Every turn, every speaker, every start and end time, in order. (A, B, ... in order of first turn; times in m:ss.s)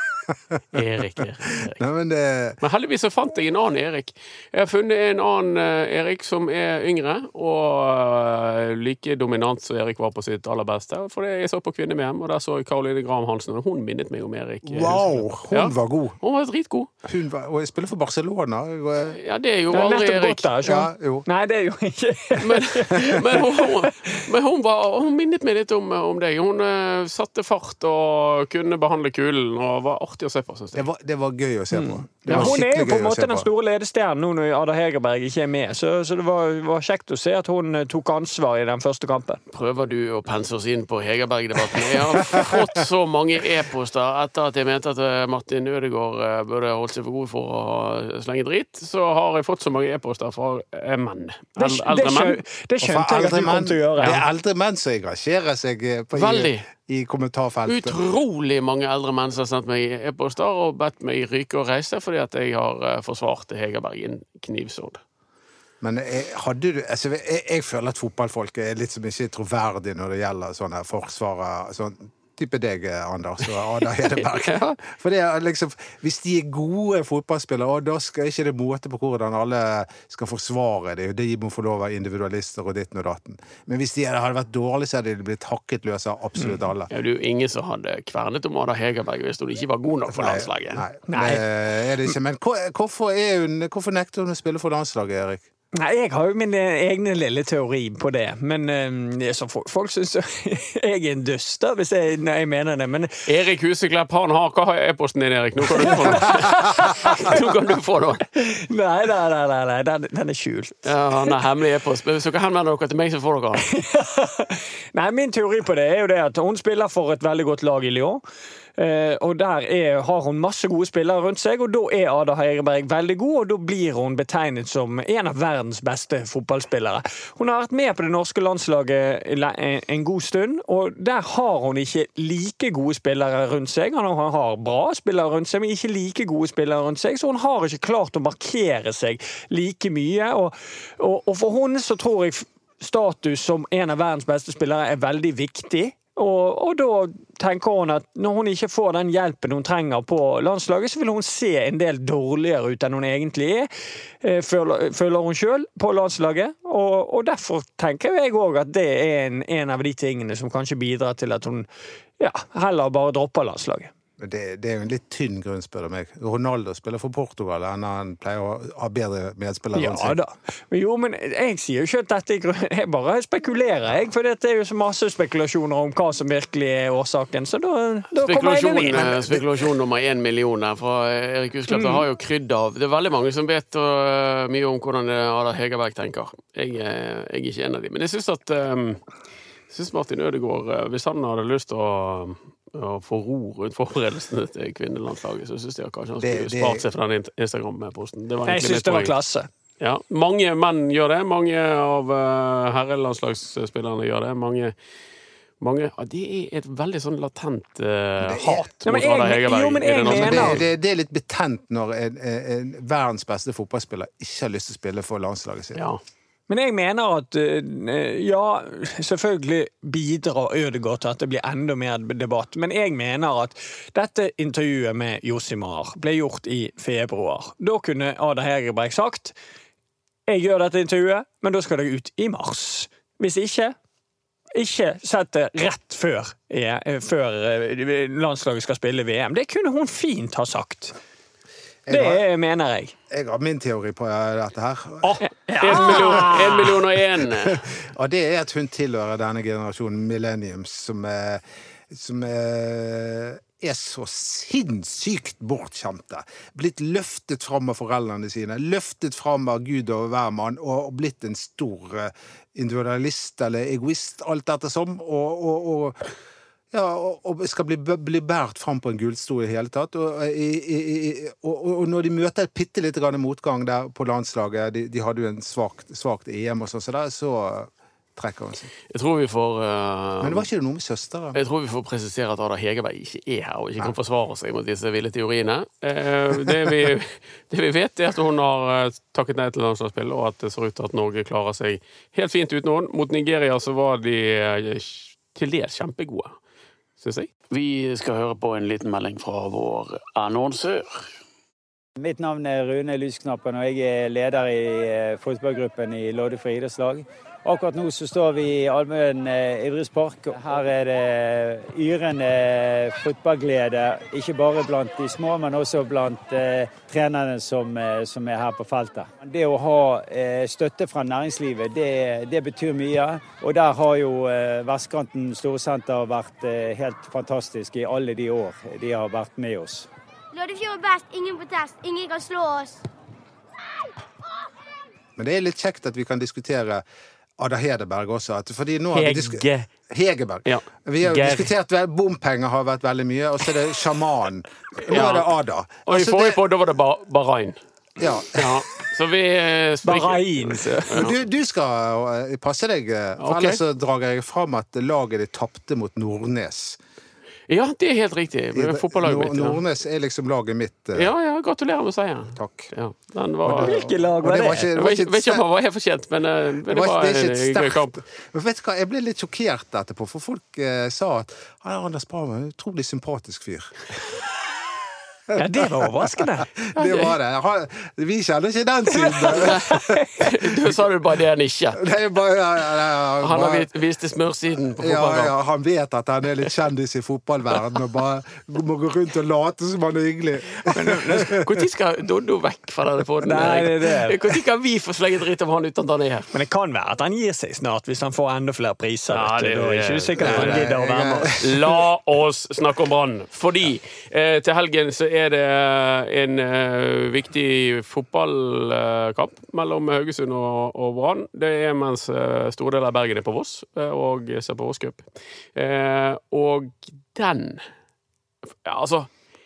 0:00.7-0:01.8 A
0:01.5-0:02.6 B
0:02.6-0:16.9 A
0:14.6-0:16.2 B
0:17.0-0:19.2 B
0:19.1-0:20.5 A
0:19.7-0:24.1 C
0:20.6-0:21.3 B
0:22.4-0:30.8 A
0:30.7-0:33.5 B
0:31.7-0:39.4 C
0:32.3-0:32.6 A
0:39.5-0:52.4 A
0:42.3-0:42.6 B
0:51.6-0:54.2 C
0:52.8-0:58.0 B
0:56.1-0:56.6 A
0:57.7-1:05.0 A
1:05.8-1:26.9 B
1:14.3-1:14.8 A
1:26.9-1:30.9 A
1:30.1-1:35.4 B
1:31.1-1:31.4 C
1:35.8-1:43.2 C
1:43.3-1:48.2 A
1:45.8-1:47.4 C
1:48.4-1:51.3 C
1:50.8-1:53.7 A
1:53.6-1:58.2 C
1:58.8-2:33.7 C
2:34.2-2:41.7 C
2:42.2-2:43.9 C
2:44.2-2:50.2 B
2:49.7-2:59.2 C
2:58.2-3:09.0 A
2:59.0-2:59.4 B
3:01.7-3:02.0 C
3:09.7-3:19.1 A
3:16.2-3:16.8 B
3:18.5-3:19.5 C
3:19.8-3:24.7 A
3:25.6-3:30.7 A
3:28.2-3:28.7 B
3:28.8-3:30.6 C
3:30.0-3:35.8 B
3:35.8-3:36.0 A
3:36.5-3:49.4 C
3:50.3-3:53.8 C
3:54.6-4:01.0 C
4:01.9-4:02.2 B
4:01.9-4:02.9 C
4:03.1-4:26.1 B
4:05.0-4:06.8 C
4:05.6-4:07.6 A
4:26.7-4:38.7 B
4:38.9-4:40.5 A
4:40.2-4:41.4 B
4:41.4-4:56.4 A
4:57.0-5:00.9 A
5:02.0-5:29.9 D
5:30.3-5:32.8 E
5:35.2-5:36.8 B
5:37.4-5:46.4 B
5:38.9-5:39.7 A
5:40.5-5:41.5 A
5:44.9-5:45.3 A
5:45.9-5:47.6 A
5:48.0-5:48.6 B
5:48.3-5:51.1 A
5:49.8-5:50.9 C
5:50.9-5:56.8 B
5:53.2-5:53.6 A
5:57.5-5:59.6 A
5:58.5-6:01.1 B
6:01.0-6:03.8 A
6:02.4-6:02.7 B
6:03.4-6:05.4 B
6:03.5-6:04.7 C
6:04.8-6:08.0 A
6:06.7-6:13.8 B
6:15.3-6:20.3 B
6:15.3-6:16.5 C
6:16.8-6:17.1 A
6:18.9-6:20.2 C
6:19.3-6:19.6 A
6:20.2-6:21.8 A
6:21.8-6:23.7 B
6:23.2-6:25.3 A
6:24.8-6:31.5 B
6:30.7-6:31.3 C
6:31.1-6:36.3 A
6:33.2-6:34.2 C
6:36.3-6:41.4 C
6:39.1-6:40.7 A
6:40.2-6:41.8 B
6:41.4-6:57.6 A
6:58.6-6:59.1 A